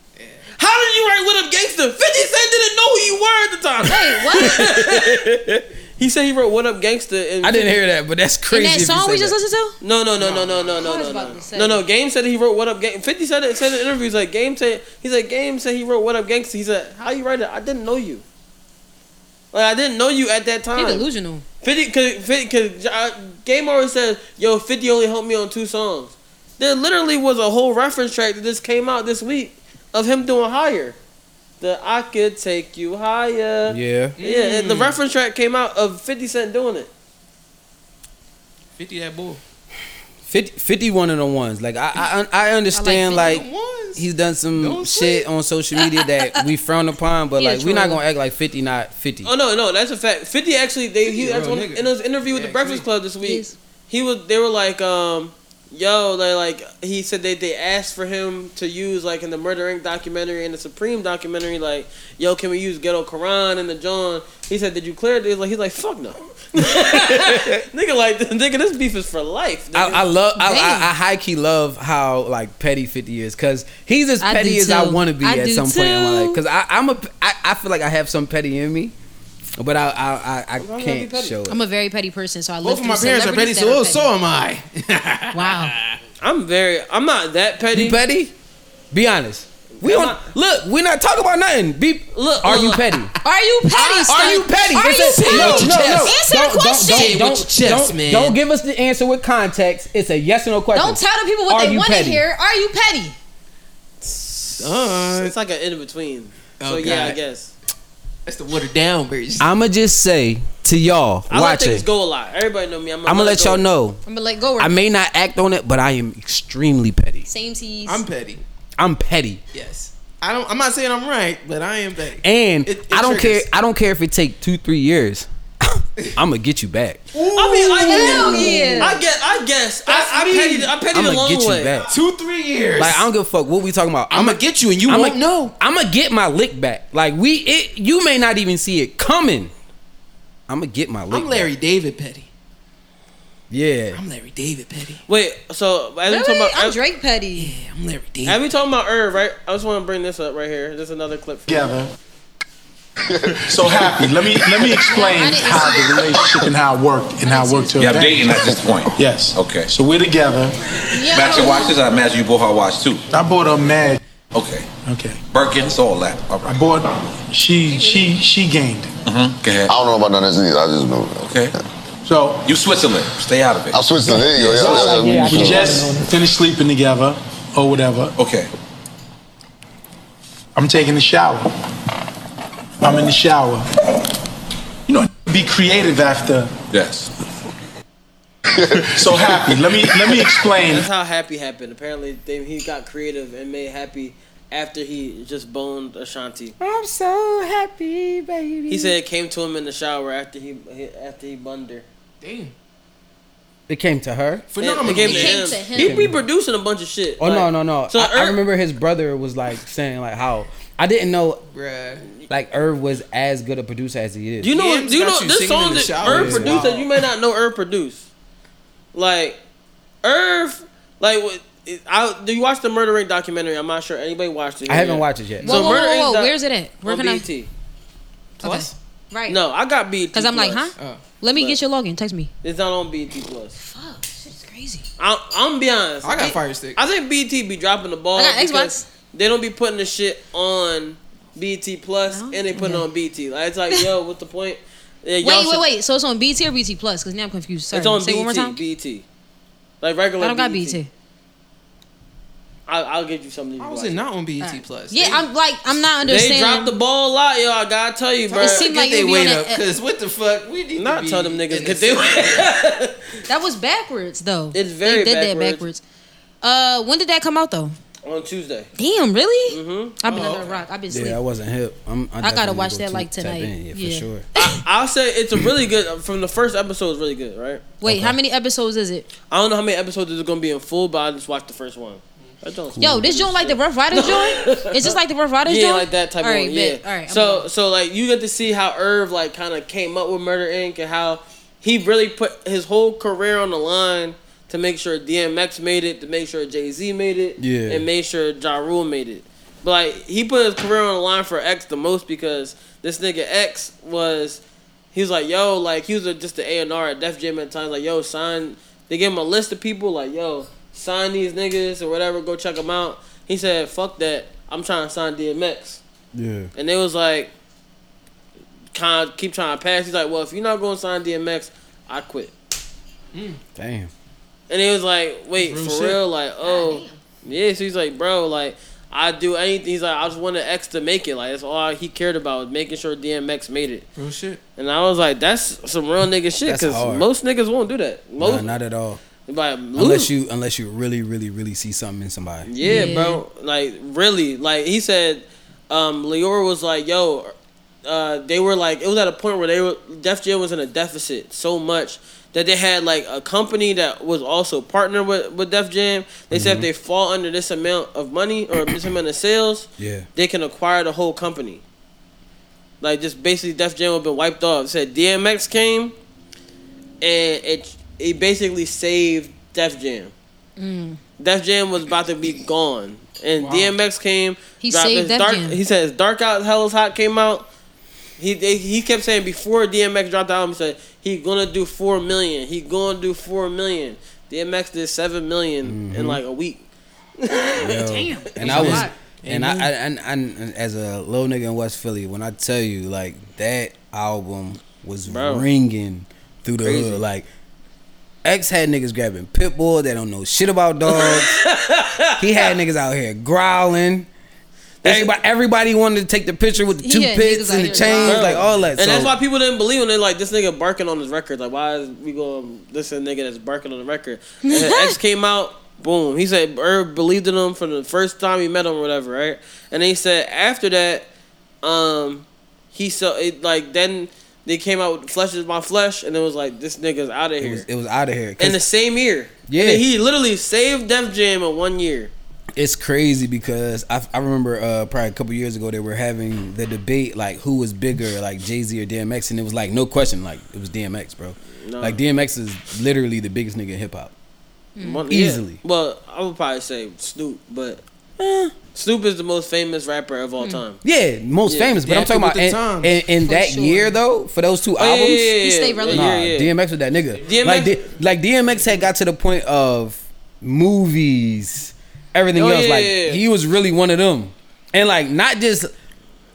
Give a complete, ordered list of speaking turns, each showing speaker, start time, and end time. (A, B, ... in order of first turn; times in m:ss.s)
0:00.2-0:00.4 A
0:00.5-0:05.3 B
0:03.8-0:04.6 C
0:04.3-0:05.6 D
0:06.0-0:07.8 B
0:07.4-0:09.4 D
0:08.5-0:09.8 C
0:09.8-0:18.2 B
0:10.2-0:10.8 A
0:10.8-0:11.8 C
0:19.5-0:21.0 B
0:20.7-0:21.4 C
0:21.6-0:31.0 B
0:31.6-0:36.9 B
0:33.7-0:34.2 D
0:34.2-0:35.0 A
0:38.8-0:39.4 A
0:40.3-0:49.3 D
0:42.7-0:43.4 C
0:43.1-0:45.2 A
0:45.8-0:46.4 C
0:47.4-0:48.0 C
0:49.2-1:10.0 B
0:51.0-0:52.8 A
0:53.2-0:53.5 C
1:06.7-1:07.5 D
1:09.7-1:18.9 D
1:10.4-1:10.9 C
1:14.2-1:16.4 C
1:19.6-1:21.6 D
1:20.6-1:21.4 B
1:21.5-1:24.1 C
1:22.6-1:25.9 A
1:25.3-1:25.7 C
1:26.2-1:28.0 B
1:27.7-1:28.3 D
1:28.9-1:33.1 D
1:29.8-1:30.2 B
1:32.1-1:32.9 B
1:33.2-1:37.4 C
1:33.9-1:36.2 A
1:34.1-1:42.2 D
1:36.8-1:38.4 A
1:40.7-1:43.2 C
1:44.0-1:47.5 B
1:44.6-1:45.3 A
1:46.6-1:47.2 A
1:48.2-1:49.5 A
1:49.4-1:51.8 D
1:51.3-1:53.6 B
1:53.0-1:54.0 D
1:54.0-1:54.8 C
1:54.6-1:57.3 D
1:57.3-1:58.0 C
1:57.8-1:58.4 A
1:58.8-1:59.4 D
1:59.5-2:03.5 A
2:02.2-2:07.0 D
2:07.1-2:09.0 A
2:07.3-2:11.7 B
2:07.8-2:09.0 C
2:09.8-2:10.8 A
2:10.9-2:11.9 D
2:11.9-2:13.1 A
2:12.8-2:19.5 D
2:14.1-2:15.5 A
2:20.5-2:21.5 D
2:21.1-2:22.3 A
2:23.5-2:24.0 D
2:23.9-2:25.0 A
2:25.0-2:26.8 B
2:26.1-2:27.5 C
2:27.4-2:28.4 A
2:28.2-2:31.8 B
2:31.5-2:31.9 E
2:33.3-2:40.6 E
2:34.8-2:36.3 C
2:37.2-2:37.9 C
2:37.8-2:39.7 F
2:38.4-2:38.8 G
2:40.9-2:41.8 C
2:41.1-2:43.1 F
2:43.1-2:44.0 E
2:44.3-2:44.7 F
2:44.8-2:45.2 E
2:45.3-2:46.6 F
2:46.4-2:49.0 E
2:47.7-2:48.2 C
2:49.0-2:49.7 F
2:49.7-2:51.4 G
2:51.2-2:51.5 F
2:52.0-2:52.6 E
2:52.4-2:53.8 F
2:53.7-2:55.8 G
2:54.1-2:58.1 E
2:54.4-2:56.1 D
2:58.2-2:58.5 F
3:00.6-3:01.5 E
3:02.8-3:03.7 E
3:04.9-3:06.5 E
3:06.7-3:07.1 F
3:08.7-3:10.9 E
3:10.6-3:16.6 B
3:16.6-3:19.0 D
3:18.7-3:21.8 B
3:22.2-3:22.5 A
3:23.7-3:24.4 D
3:24.5-3:25.7 A
3:24.6-3:28.4 B
3:24.8-3:26.1 C
3:25.8-3:26.1 D
3:27.2-3:31.4 D
3:31.5-3:32.0 A
3:32.3-3:34.5 D
3:34.4-3:38.1 B
3:34.5-3:36.9 A
3:36.0-3:36.6 D
3:38.9-3:39.4 B
3:40.0-3:46.3 B
3:44.6-3:45.6 D
3:45.4-3:47.2 C
3:46.8-3:47.5 B
3:48.4-3:48.7 A
3:48.4-3:49.4 C
3:49.3-3:50.7 B
3:50.1-3:52.3 C
3:50.8-3:51.0 A
3:52.4-3:53.6 B
3:53.6-3:54.8 C
3:55.0-4:05.6 B
3:56.0-3:56.8 A
3:58.2-3:58.8 C
4:02.1-4:02.9 C
4:05.2-4:08.6 C
4:07.7-4:09.0 B
4:09.8-4:10.8 B
4:10.2-4:10.9 C
4:12.7-4:14.0 B
4:13.6-4:15.3 A
4:14.4-4:16.7 C
4:16.0-4:18.7 B
4:18.3-4:19.6 C
4:18.3-4:22.6 A
4:20.7-4:23.1 B
4:23.3-4:25.8 C
4:24.5-4:25.6 B
4:26.4-4:27.7 C
4:28.0-4:28.7 B
4:28.8-4:31.2 C
4:29.5-4:30.2 B
4:30.0-4:30.6 A
4:30.9-4:34.2 D
4:32.2-4:34.6 C
4:34.4-4:37.6 B
4:37.8-4:39.1 C
4:37.8-4:38.2 D
4:39.3-5:04.4 B
4:42.7-4:43.1 D
4:42.8-4:47.5 C
4:57.4-4:57.8 D
5:04.9-5:15.8 B
5:16.1-5:16.5 D
5:16.6-5:17.3 B
5:18.7-5:22.3 B
5:23.1-5:23.4 A
5:23.5-5:23.9 D
5:24.5-5:33.8 B
5:25.4-5:26.0 A
5:26.4-5:27.0 C
5:34.0-5:34.4 A
5:34.6-5:38.5 B
5:36.4-5:37.1 D
5:38.2-5:39.0 D
5:39.3-5:40.1 B
5:39.8-5:42.5 D
5:42.4-5:47.3 B
5:42.6-5:43.2 C
5:47.8-6:01.6 B
5:56.3-5:56.7 D
5:59.8-6:00.1 D
6:02.8-6:05.9 B
6:07.0-6:10.1 B
6:10.6-6:11.0 C
6:11.2-6:17.5 B
6:13.4-6:13.8 A
6:14.6-6:15.6 C
6:18.2-6:26.6 B
6:25.6-6:26.2 D
6:27.2-6:28.8 B
6:27.6-6:37.2 D
6:27.9-6:28.9 C
6:28.4-6:29.7 A
6:35.0-6:35.4 B
6:36.6-6:37.0 B
6:38.2-6:41.3 D
6:40.9-6:42.5 B
6:42.2-6:44.1 D
6:44.8-6:45.1 B
6:44.8-6:49.1 D
6:46.8-6:48.4 C
6:47.9-7:01.1 B
6:54.5-6:55.0 C
7:01.6-7:07.7 B
7:07.4-7:08.6 D
7:08.4-7:12.1 B
7:09.5-7:09.8 D
7:12.6-7:24.1 D
7:21.6-7:22.0 B
7:24.8-7:25.0 C
7:24.8-7:27.8 B
7:25.1-7:25.6 D
7:28.2-7:28.5 D
7:28.7-7:30.8 B
7:30.8-7:45.7 D
7:31.4-7:31.7 B
7:31.8-7:33.0 A
7:33.2-7:34.0 C
7:34.8-7:36.5 B
7:35.4-7:36.1 C
7:37.2-7:37.5 A
7:37.2-7:37.8 B
7:42.3-7:43.2 B